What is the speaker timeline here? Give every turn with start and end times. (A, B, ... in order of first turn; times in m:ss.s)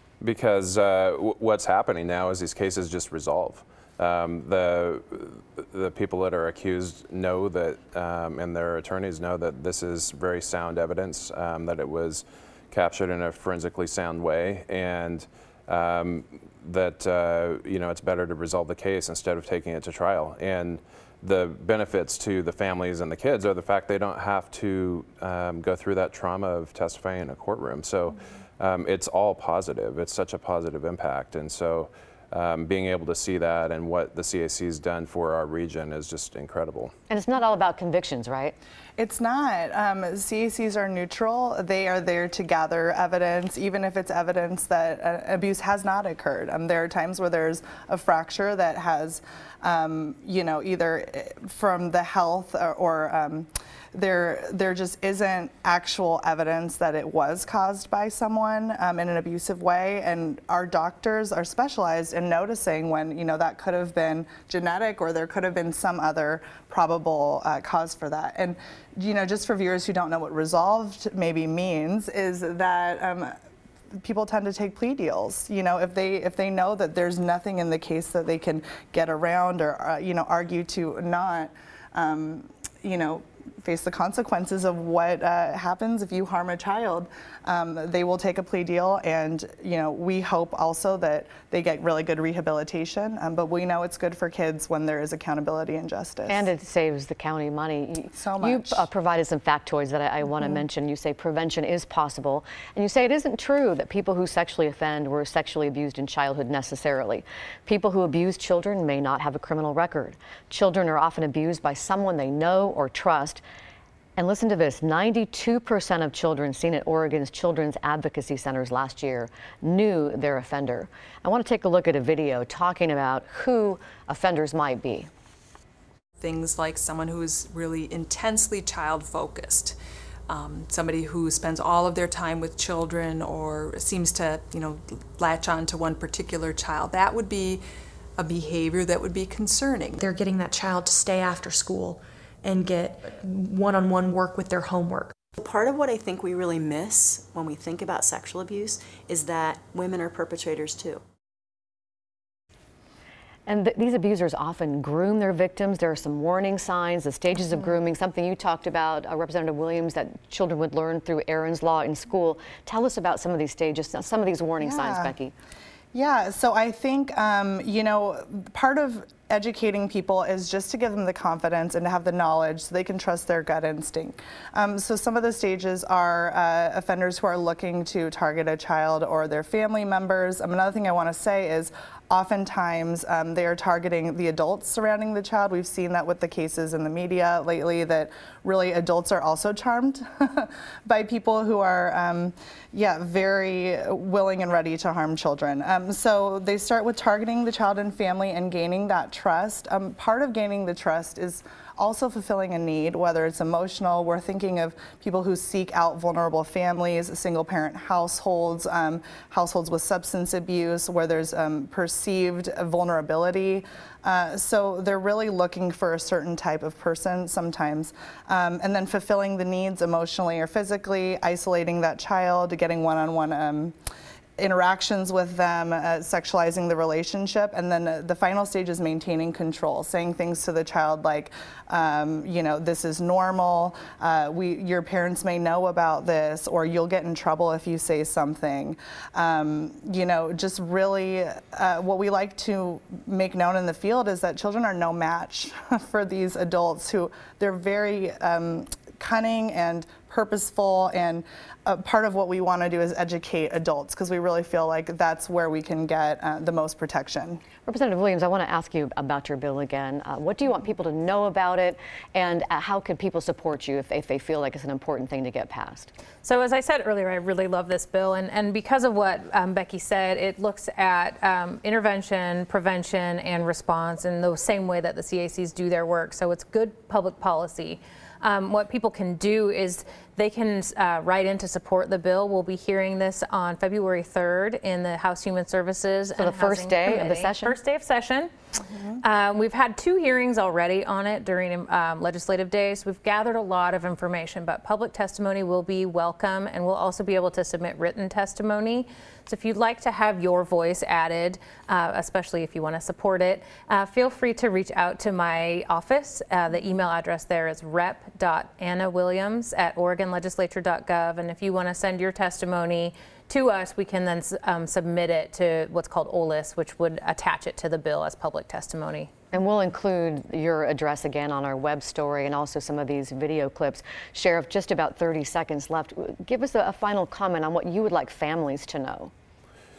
0:00.2-0:36.9 A
0:37.1-0:38.6 B
0:39.0-1:13.3 C
1:14.0-1:36.4 C
1:36.3-1:53.4 B
1:38.2-1:38.8 C
1:54.2-2:05.1 B
2:06.2-2:09.8 D
2:10.3-2:17.6 D
2:18.2-2:20.0 D
2:20.0-2:25.1 E
2:25.4-2:31.0 F
2:33.5-2:45.3 B
2:44.6-2:45.1 C
2:45.9-3:43.8 C
3:44.4-4:17.4 C
4:17.6-4:25.9 B
4:26.2-4:48.3 G
4:46.2-4:47.6 B
4:49.0-5:19.1 G
5:19.3-5:29.1 B